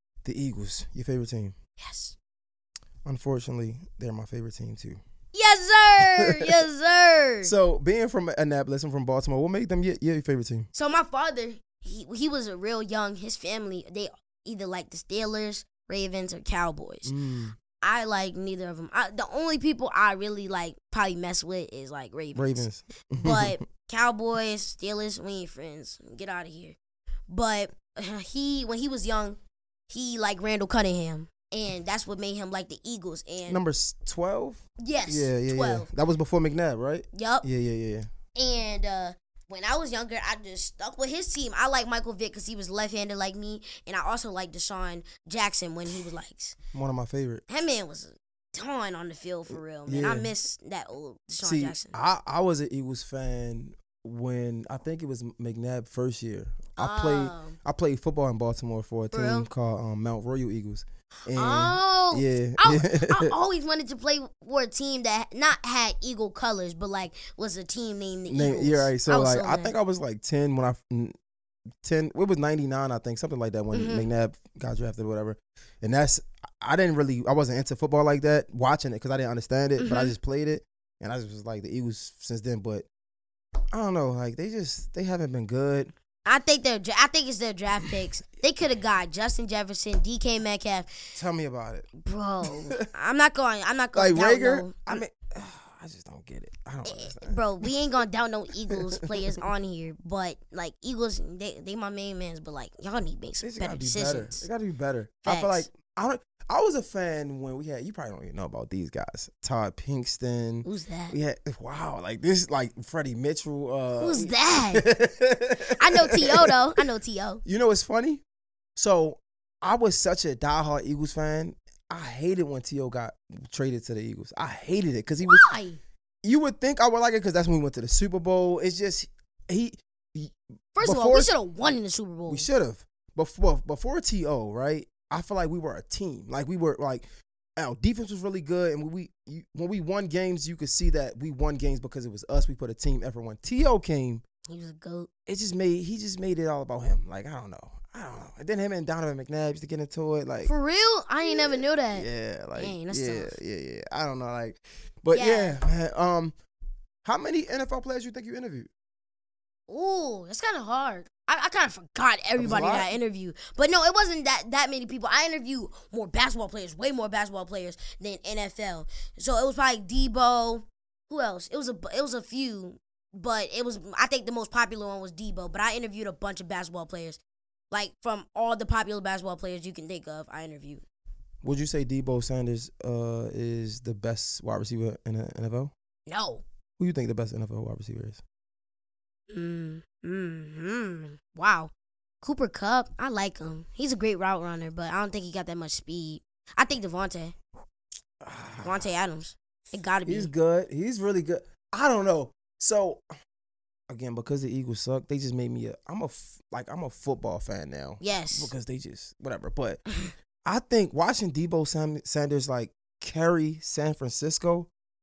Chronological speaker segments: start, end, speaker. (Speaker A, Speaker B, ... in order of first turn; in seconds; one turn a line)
Speaker A: 0.2-1.6
Speaker B: 1.8-2.1
Speaker A: 3.0-5.0
Speaker B: 5.3-7.5
Speaker A: 6.0-6.5
Speaker A: 7.4-10.7
Speaker B: 10.7-17.1
Speaker A: 17.1-17.6
Speaker B: 17.8-22.7
Speaker A: 22.4-23.6
Speaker B: 23.2-26.8
Speaker B: 27.3-33.6
Speaker A: 33.5-38.1
Speaker B: 34.8-35.9
Speaker B: 37.1-37.5
Speaker B: 38.4-46.6
Speaker A: 46.7-47.4
Speaker B: 47.5-51.9
Speaker A: 49.9-50.3
Speaker A: 51.4-63.3
Speaker B: 56.8-57.6
Speaker B: 59.1-59.5
Speaker B: 61.4-69.7
Speaker A: 68.3-71.1
Speaker A: 71.8-82.9
Speaker B: 73.7-74.1
Speaker B: 79.8-80.1
Speaker A: 83.7-85.9
Speaker B: 86.2-90.9
Speaker A: 91.1-91.9
Speaker B: 92.0-95.0
Speaker A: 92.5-92.8
Speaker A: 93.9-97.7
Speaker B: 96.8-104.5
Speaker A: 98.7-99.2
Speaker A: 103.4-116.8
Speaker B: 105.2-105.7
Speaker B: 110.6-111.1
Speaker B: 114.0-114.8
Speaker B: 115.8-117.4
Speaker A: 117.4-118.2
Speaker A: 118.8-125.5
Speaker B: 125.2-125.8
Speaker A: 126.2-131.3
Speaker B: 130.8-132.5
Speaker A: 132.3-137.1
Speaker A: 137.6-144.2
Speaker B: 144.5-145.1
Speaker A: 145.3-150.5
Speaker B: 150.4-153.4
Speaker A: 151.2-156.3
Speaker B: 155.1-155.6
Speaker A: 157.0-158.7
Speaker B: 159.7-177.2
Speaker A: 162.4-163.0
Speaker B: 177.7-180.8
Speaker A: 181.4-185.7
Speaker B: 186.1-186.4
Speaker A: 186.8-188.2
Speaker B: 189.3-197.3
Speaker A: 198.2-198.8
Speaker B: 198.6-200.3
Speaker A: 200.1-203.0
Speaker A: 203.9-209.8
Speaker B: 208.0-208.5
Speaker A: 210.4-214.7